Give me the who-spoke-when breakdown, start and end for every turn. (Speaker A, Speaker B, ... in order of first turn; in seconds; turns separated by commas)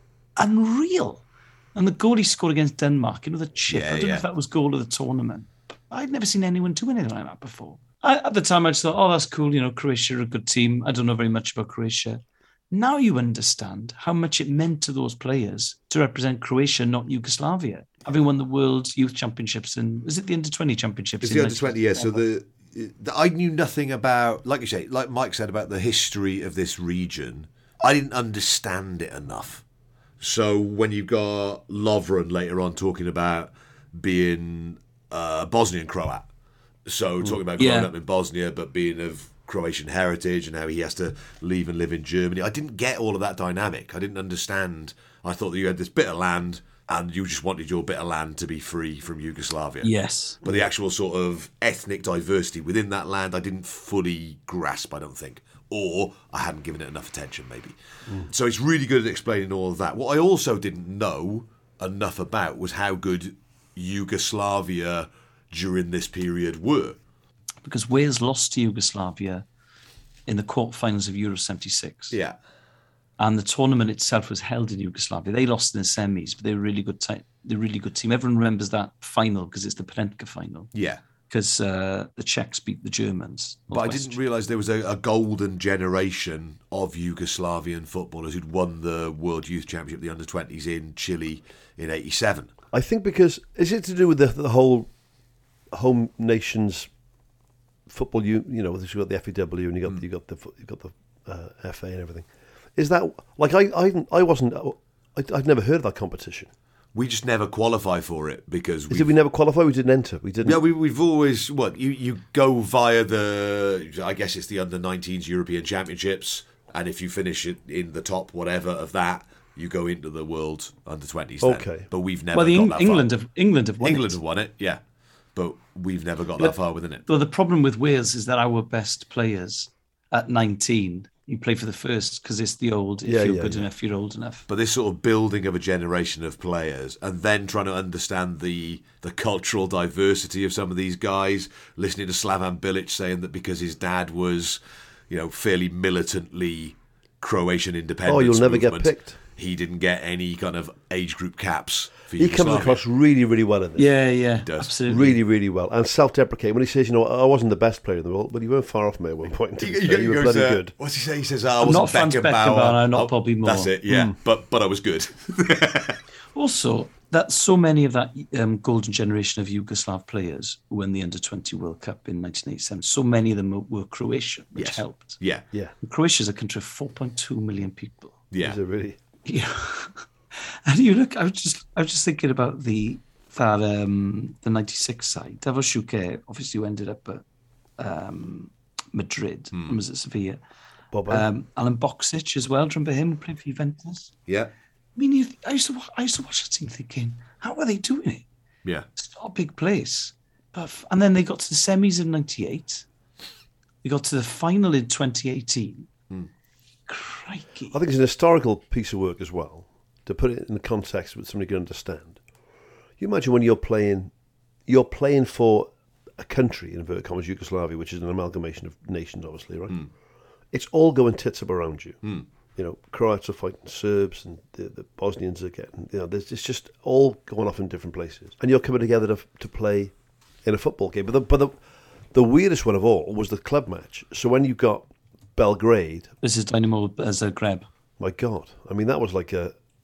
Speaker A: 0.4-22.2, Speaker B: 3.7-4.2, Speaker B: 21.2-29.6, Speaker B: 30.2-36.3, Speaker B: 36.9-49.9, Speaker A: 37.6-37.9, Speaker A: 49.8-50.4, Speaker B: 50.4-57.8, Speaker B: 58.3-67.0, Speaker A: 67.6-69.5, Speaker A: 70.3-72.2, Speaker B: 72.1-72.4, Speaker A: 73.2-80.7, Speaker B: 80.7-81.0, Speaker A: 81.3-84.2, Speaker B: 83.7-92.5, Speaker C: 92.7-94.9, Speaker C: 95.7-96.9, Speaker C: 97.9-106.5, Speaker B: 106.9-109.1, Speaker C: 108.9-110.6, Speaker B: 110.4-123.1, Speaker C: 121.4-121.9, Speaker A: 122.3-124.2, Speaker B: 123.8-124.8, Speaker B: 125.3-127.0, Speaker A: 127.1-134.5, Speaker C: 133.1-133.7, Speaker B: 134.5-152.8, Speaker C: 148.1-149.2, Speaker C: 152.2-153.9, Speaker A: 153.8-155.2, Speaker B: 154.4-154.7, Speaker C: 154.9-160.7, Speaker B: 159.6-166.0, Speaker A: 161.6-163.7, Speaker C: 163.9-164.2, Speaker A: 166.3-175.2, Speaker B: 174.6-175.4, Speaker A: 175.8-178.2, Speaker B: 178.3-178.6, Speaker C: 178.4-179.0, Speaker A: 179.2-187.2, Speaker A: 187.8-190.4, Speaker C: 190.9-191.3, Speaker A: 191.1-194.1, Speaker B: 194.3-194.5, Speaker A: 195.0-198.3, Speaker A: 199.0-202.8, Speaker A: 203.8-205.9, Speaker A: 206.9-207.8, Speaker C: 207.7-212.2, Speaker C: 213.0-214.1, Speaker C: 214.7-219.8, Speaker C: 220.5-222.0, Speaker C: 222.6-231.6, Speaker C: 232.1-236.1, Speaker A: 236.2-237.7, Speaker C: 238.0-239.5